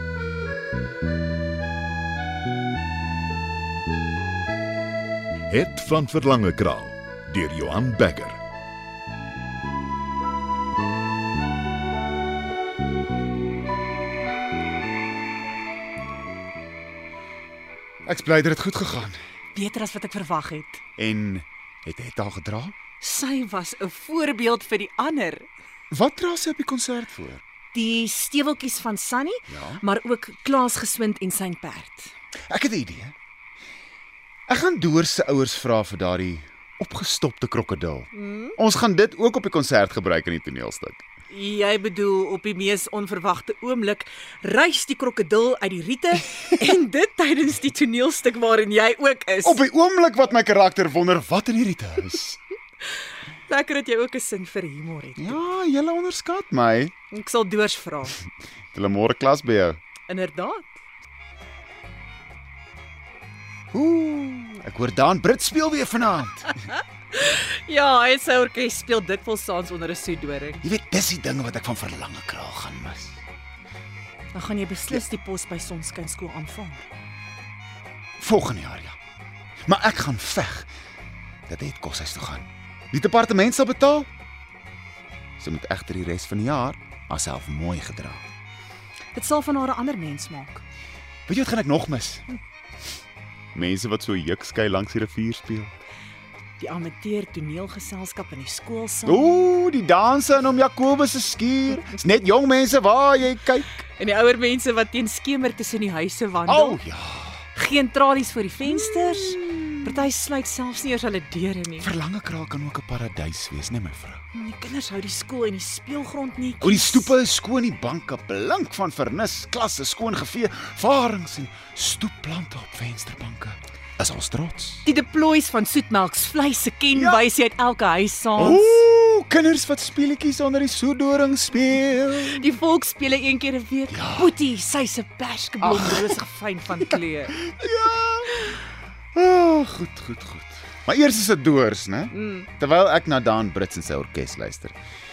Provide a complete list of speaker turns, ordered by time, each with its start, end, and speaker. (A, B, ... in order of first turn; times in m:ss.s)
0:05.5-0:08.4 A
0:18.1-0:19.2 B
0:19.6-0:20.8 C
0:21.0-0:22.8 B
0:23.0-0:25.5 C
0:25.9-0:27.4 B
0:27.7-0:32.1 C
0:29.5-0:29.8 B
0:32.5-0:33.1 B
0:34.5-0:41.0 B
0:38.2-0:38.6 C
0:41.3-0:49.6 C
0:49.4-0:52.4 B
0:53.5-0:55.4 C
0:55.2-0:56.9 B
0:57.1-0:58.2 C
0:58.7-0:59.8 B
1:00.1-1:00.8 C
1:03.7-1:06.5 B
1:06.5-1:10.6 C
1:10.6-1:13.2 B
1:14.3-1:16.9 C
1:18.2-1:19.0 B
1:19.7-1:20.7 B
1:21.5-1:24.1 B
1:25.4-1:28.3 B
1:29.2-1:30.6 C
1:31.3-1:32.2 B
1:33.5-1:35.7 B
1:36.6-1:39.4 C
1:39.1-1:43.8 B
1:44.0-1:46.8 C
1:46.5-1:47.4 B
1:47.6-1:51.9 C
1:48.7-1:49.4 B
1:51.8-1:54.2 B
1:54.3-1:57.1 C
1:56.6-2:04.9 B
2:04.8-2:08.8 C
2:06.9-2:07.2 B
2:08.4-2:12.5 B
2:12.1-2:17.4 C
2:13.9-2:14.4 B
2:15.6-2:16.1 B
2:17.4-2:18.5 B
2:19.2-2:24.8 B
2:22.1-2:22.5 C